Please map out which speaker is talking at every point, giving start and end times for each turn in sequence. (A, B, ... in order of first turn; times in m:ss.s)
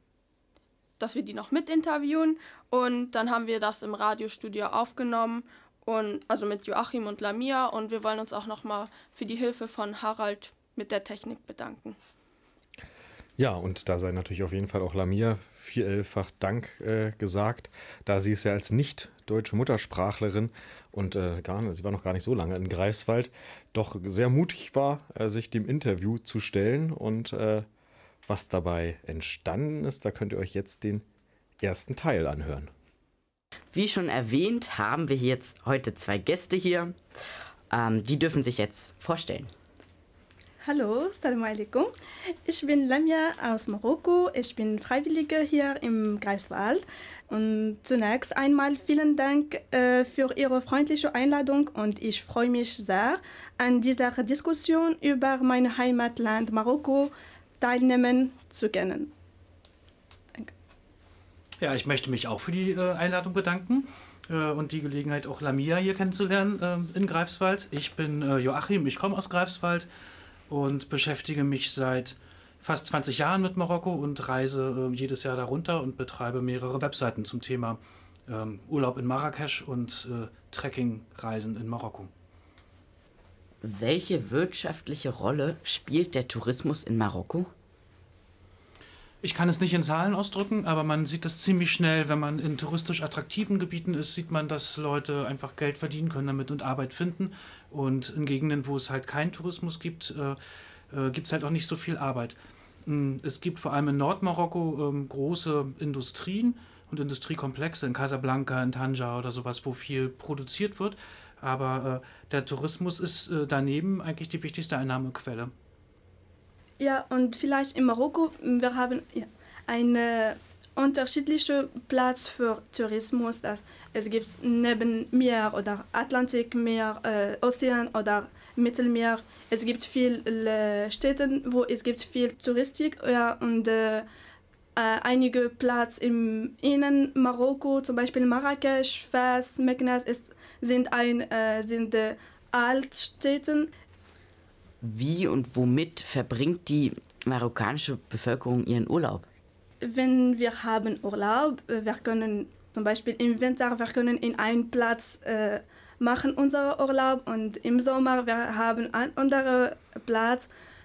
0:01.0-0:12.0 A
0:13.4-0:27.7 B
0:28.2-0:31.0 B
0:31.6-0:32.7 B
0:33.7-0:37.0 C
0:37.7-0:39.5 C
0:40.6-0:41.9 D
0:42.4-0:59.1 D
1:01.6-1:09.9 E
1:10.5-1:22.1 E
1:23.6-1:27.5 C
1:29.2-1:40.4 E
1:40.9-1:55.5 E
1:56.8-2:14.0 D
2:14.8-2:23.7 D
2:24.8-2:29.2 C
2:29.8-2:40.5 D